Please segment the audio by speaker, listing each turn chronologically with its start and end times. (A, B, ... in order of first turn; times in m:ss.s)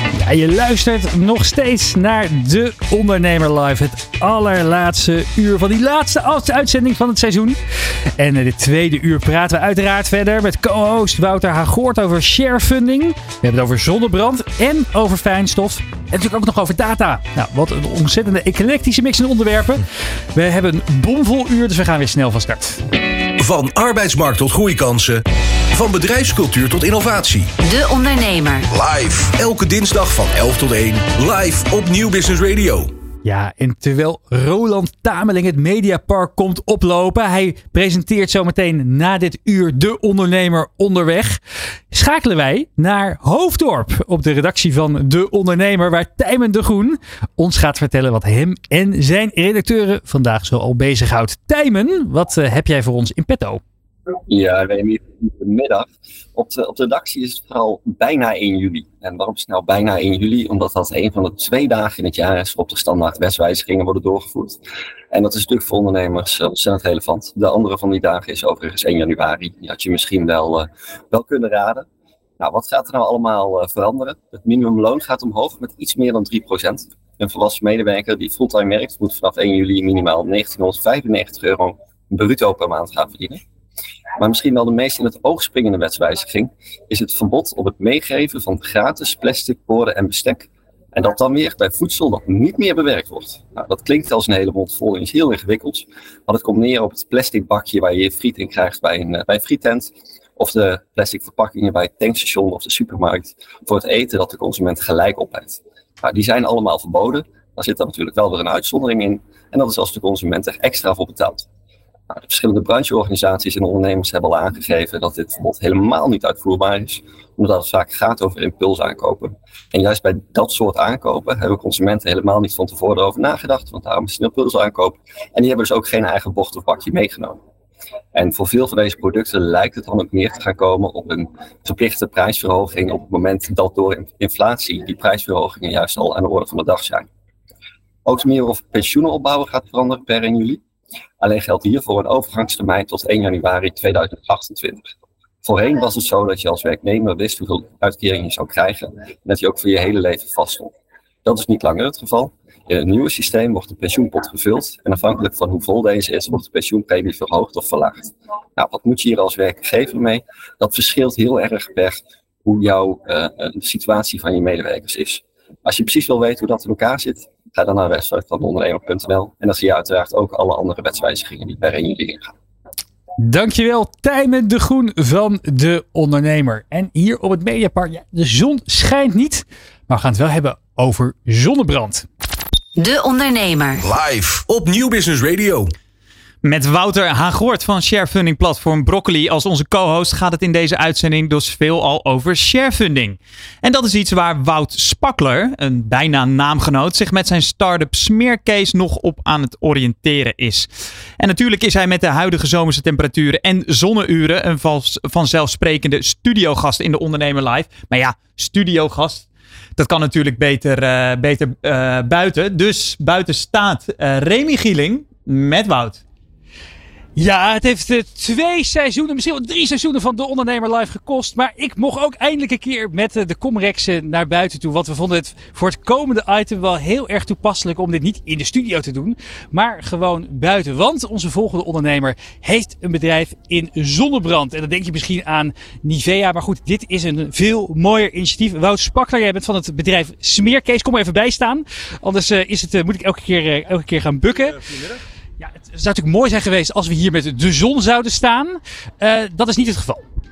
0:00.2-0:07.6 A
0:08.2-0:22.8 A
0:23.4-0:27.5 B
0:27.6-0:28.7 C
0:28.7-0:32.9 B
0:33.2-0:41.4 A
0:41.9-0:53.6 A
0:54.3-1:04.6 D
1:05.1-1:11.9 D
1:12.4-1:23.4 D
1:24.2-1:51.5 D
1:52.1-2:07.4 D
2:08.2-2:17.1 D
2:18.1-2:20.6 D
2:21.2-2:24.9 D
2:25.4-2:30.7 D
2:31.2-2:52.3 D
2:53.2-3:02.1 A
3:02.8-3:03.8 C
3:03.8-3:05.7 B
3:06.4-3:29.2 E
3:29.8-3:36.0 E
3:37.2-4:04.6 A
4:05.4-4:10.0 A